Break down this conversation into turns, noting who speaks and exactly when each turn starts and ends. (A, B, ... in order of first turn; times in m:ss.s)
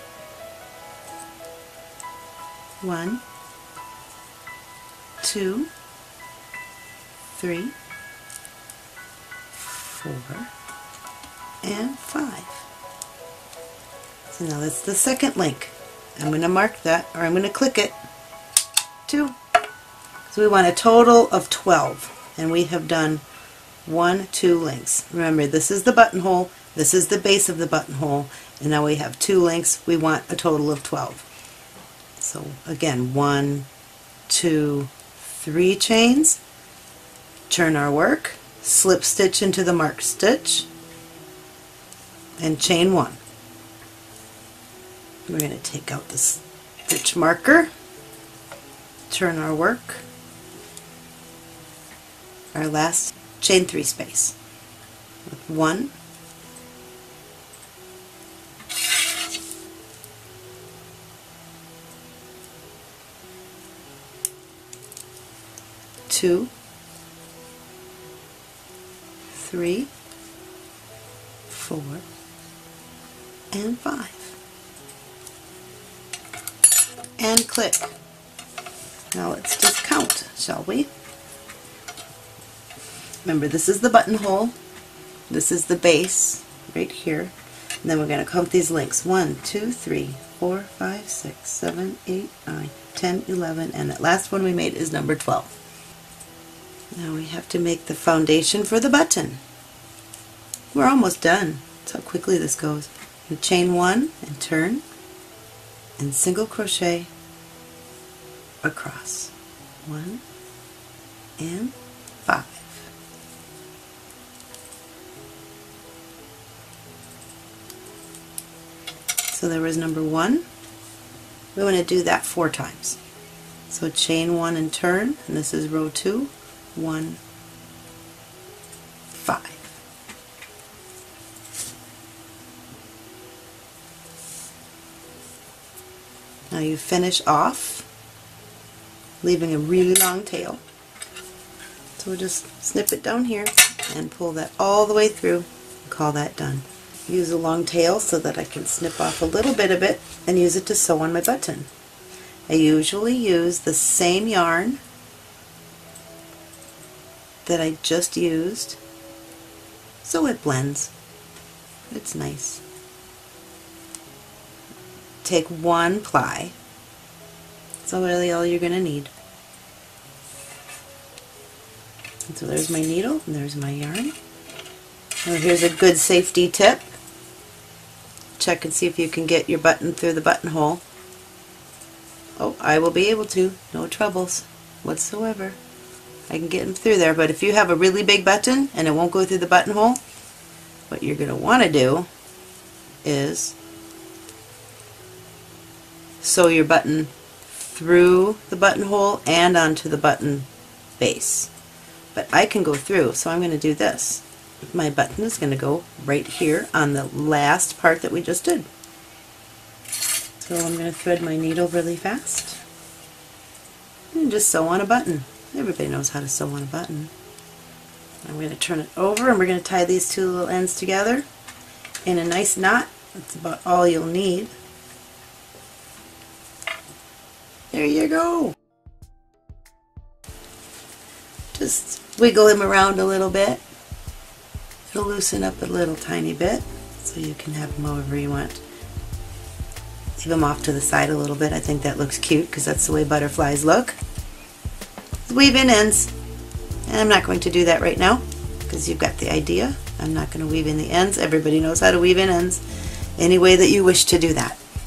0:02.8-0:03.2 A
0:05.2-0:05.7 A
0:07.3-0:07.8 A
0:09.5-0:10.5 A
0:11.6-0:12.6 A
0:14.3-0:18.0 A
0:19.1-0:19.4 A
0:20.3-0:23.2 A
0:23.8-0:31.3 A
0:32.2-0:33.7 A
0:34.3-0:36.4 A
0:37.5-0:40.7 A
0:42.4-0:43.2 A
0:45.3-0:47.7 A
0:49.1-0:50.0 A
0:52.5-0:54.4 A
0:55.3-0:55.9 A
1:06.1-1:06.5 A
1:09.3-1:09.9 A
1:11.5-1:12.0 A
1:13.5-1:14.4 A
1:17.2-1:18.0 A
1:19.1-1:20.9 A
1:23.2-1:24.5 A
1:25.3-1:35.5 A
1:36.9-1:39.4 A
1:40.7-1:44.8 A
1:46.0-1:47.1 A
1:48.6-1:49.3 A
1:49.8-1:50.2 A
1:51.4-1:52.9 A
1:59.3-2:00.5 A
2:01.6-2:03.0 A
2:03.7-2:07.2 A
2:09.1-2:09.8 A
2:16.5-2:17.9 A
2:19.2-2:20.6 A
2:22.0-2:31.7 A
2:32.5-2:34.8 A
2:37.4-2:38.8 A
2:40.0-2:40.9 A
2:41.9-2:42.6 A
2:45.2-2:46.6 A
2:47.8-2:49.1 A
2:52.3-2:54.2 A
2:55.2-2:56.9 A
2:58.4-3:00.8 A
3:02.4-3:05.6 A
3:06.3-3:10.0 A
3:10.9-3:12.1 A
3:13.0-3:13.6 A
3:16.2-3:21.5 A
3:22.1-3:28.7 A
3:30.4-3:32.6 A
3:34.1-3:37.1 A
3:38.2-3:41.3 A
3:42.0-3:44.5 A
3:47.7-3:48.6 A
3:51.5-3:53.6 A
3:54.9-3:58.6 A
4:00.2-4:04.0 A
4:05.3-4:06.1 A
4:06.9-4:12.6 A
4:13.2-4:14.6 A